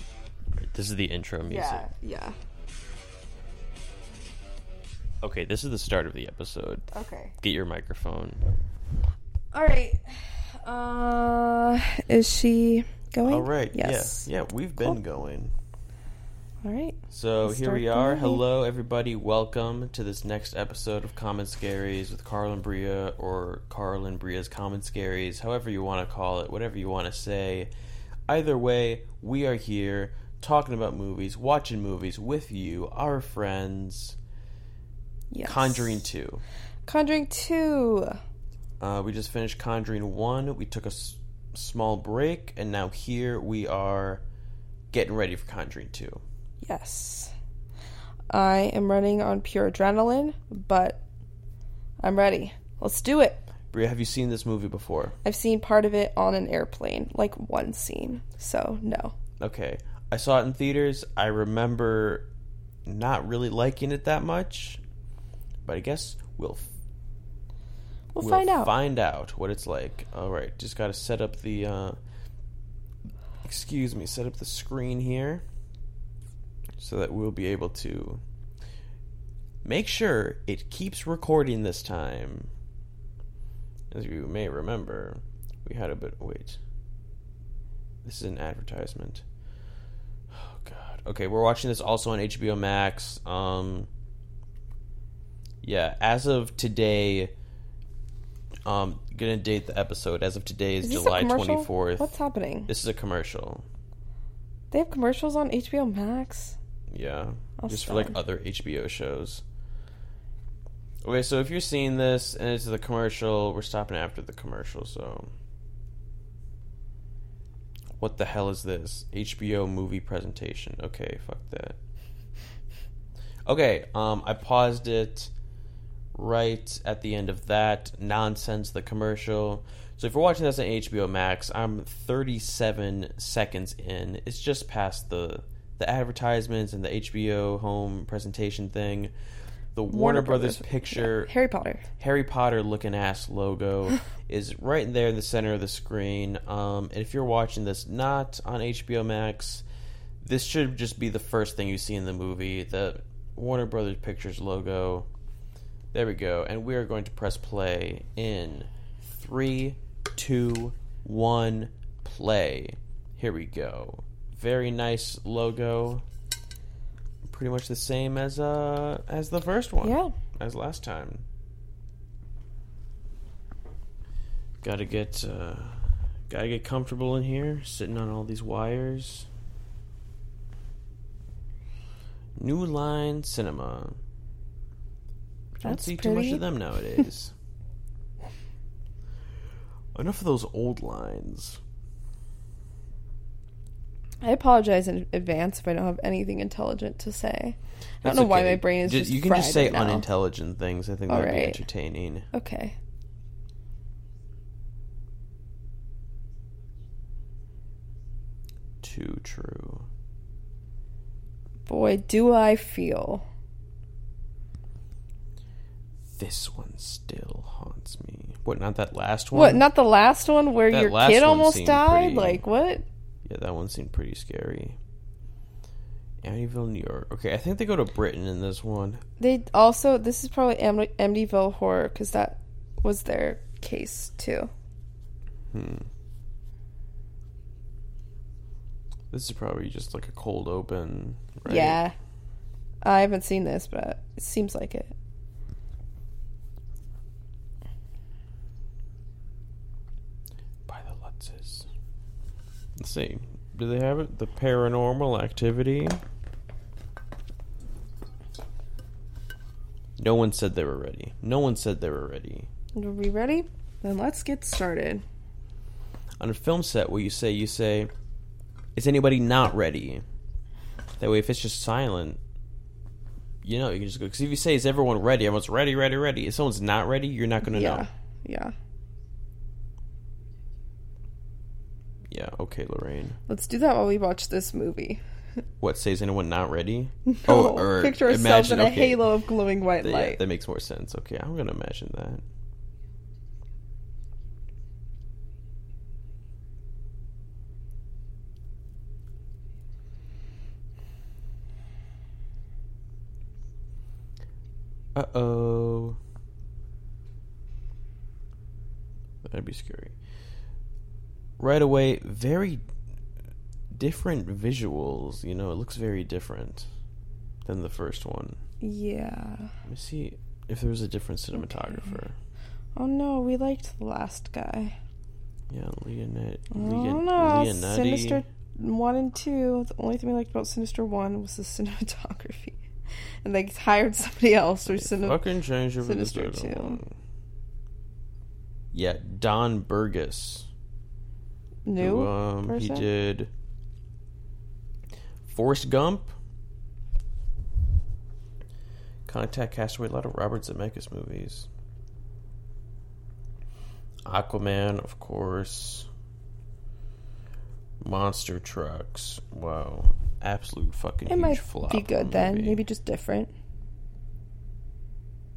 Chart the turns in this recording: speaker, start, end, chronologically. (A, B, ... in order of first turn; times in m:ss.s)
0:00.5-0:01.9 A
0:01.4-0:02.4 B
0:05.2-0:08.4 A
0:06.9-0:07.4 B
0:09.5-0:14.3 B
0:13.2-0:15.5 A
0:16.6-0:18.4 B
0:17.1-0:27.7 A
0:28.3-0:34.2 A
0:35.3-0:36.0 B
0:35.4-0:36.4 A
0:36.9-0:38.2 B
0:38.8-0:44.2 A
0:44.9-0:46.2 A
0:46.6-0:47.3 B
0:48.3-0:51.0 B
0:52.0-0:53.4 B
0:53.7-0:55.2 A
0:55.2-0:59.2 B
0:59.4-1:02.3 A
1:02.9-1:04.8 A
1:05.6-1:06.8 A
1:08.1-1:08.7 B
1:08.2-1:12.0 A
1:13.4-1:15.4 A
1:16.8-1:18.2 A
1:19.6-1:22.5 A
1:23.9-1:26.6 A
1:28.0-1:29.2 A
1:30.3-1:33.9 A
1:35.6-1:37.3 A
1:38.7-1:42.1 A
1:40.8-1:42.7 B
1:42.7-1:43.7 A
1:44.7-1:46.6 B
1:46.9-1:49.4 A
1:47.6-1:48.2 B
1:51.0-1:55.3 A
1:58.0-2:01.8 A
2:03.5-2:05.3 A
2:06.2-2:19.1 A
2:19.8-2:21.3 A
2:19.9-2:21.9 B
2:22.0-2:29.6 A
2:30.2-2:35.1 A
2:35.9-2:46.1 A
2:47.2-2:51.2 A
2:49.8-2:50.1 B
2:54.6-2:59.3 A
3:02.4-3:04.0 A
3:05.6-3:07.3 A
3:05.6-3:06.4 B
3:09.9-3:11.6 A
3:14.2-3:20.1 B
3:18.0-3:22.3 A
3:21.1-3:21.6 B
3:22.3-3:22.8 B
3:28.8-3:29.9 A
3:31.7-3:33.2 B
3:36.1-3:39.6 A
3:39.3-3:42.8 B
3:40.7-3:42.4 A
3:43.2-3:44.8 A
3:46.2-3:49.0 A
3:49.2-3:54.5 B
3:55.5-3:55.9 A
3:59.1-4:01.8 A
4:01.5-4:01.9 B
4:02.8-4:04.9 B
4:10.7-4:11.7 A
4:12.8-4:16.0 A
4:20.0-4:22.5 A
4:22.8-4:25.0 B
4:26.2-4:27.9 A
4:28.8-4:30.0 A
4:31.0-4:32.2 A
4:33.4-4:37.9 A
4:37.4-4:38.5 B
4:42.1-4:43.2 A
4:43.3-4:45.0 B
4:45.6-4:49.1 A
4:47.1-4:50.2 B
4:49.8-4:52.2 A
5:05.0-5:06.0 A
5:09.2-5:10.0 A
5:11.4-5:12.6 A
5:13.7-5:16.7 A
5:17.5-5:18.4 A
5:18.6-5:19.6 B
5:19.6-5:22.2 A
5:22.8-5:24.8 B
5:25.5-5:28.2 A
5:26.5-5:32.6 B
5:33.2-5:35.2 B
5:34.6-5:37.0 A
5:35.8-5:36.8 B
5:38.7-5:40.5 A
5:41.7-5:42.9 B
5:41.8-5:43.3 A
5:45.3-5:46.2 A
5:49.1-5:51.5 A
5:54.0-5:55.9 A
5:57.8-6:02.6 A
6:01.1-6:03.3 B